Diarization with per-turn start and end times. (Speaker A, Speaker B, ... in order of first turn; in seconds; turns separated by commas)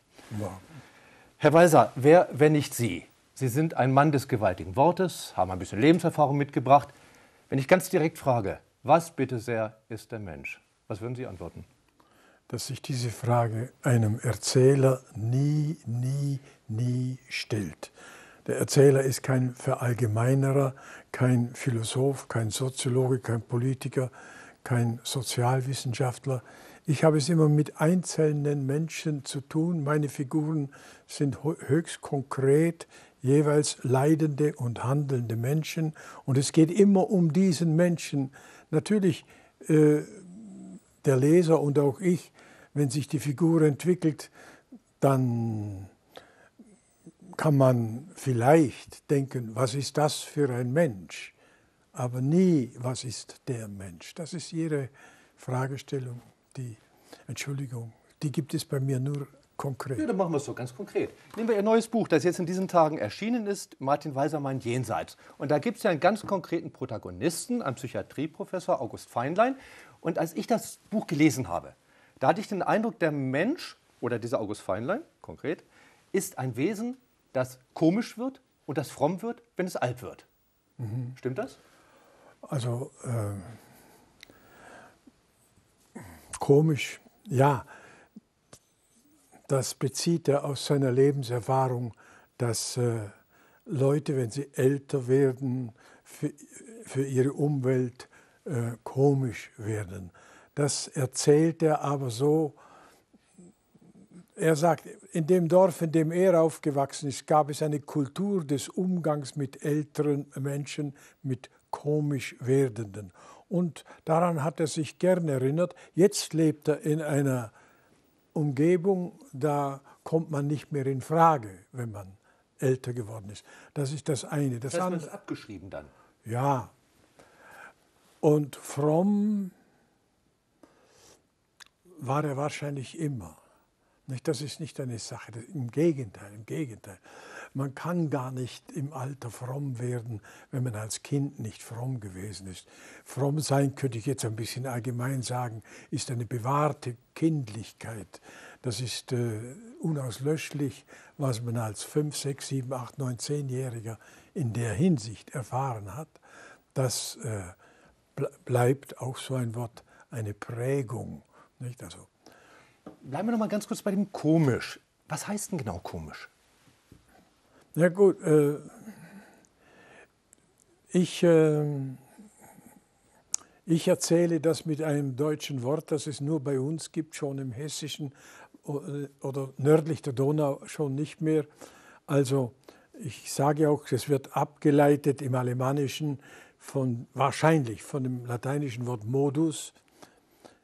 Speaker A: 0.3-0.6, Speaker B: 1.4-6.9, Speaker B: 7.5-11.7, Speaker A: 12.5-17.9, Speaker A: 18.4-24.1, Speaker A: 24.6-44.3, Speaker A: 45.0-45.9, Speaker A: 47.4-51.3, Speaker A: 51.9-60.0, Speaker B: 60.0-80.2, Speaker A: 80.8-81.1, Speaker B: 81.2-81.6, Speaker A: 82.4-83.6, Speaker A: 86.3-87.7, Speaker A: 89.5-93.1, Speaker A: 93.7-102.6, Speaker A: 104.3-117.5, Speaker A: 118.3-125.1, Speaker B: 124.7-125.9, Speaker A: 126.2-126.7, Speaker A: 128.2-129.5, Speaker A: 132.0-133.4, Speaker A: 134.1-156.2, Speaker A: 156.7-157.6, Speaker A: 158.2-162.1, Speaker B: 163.0-166.3, Speaker A: 167.8-169.0, Speaker A: 170.9-172.0, Speaker A: 173.7-181.5, Speaker A: 182.1-189.8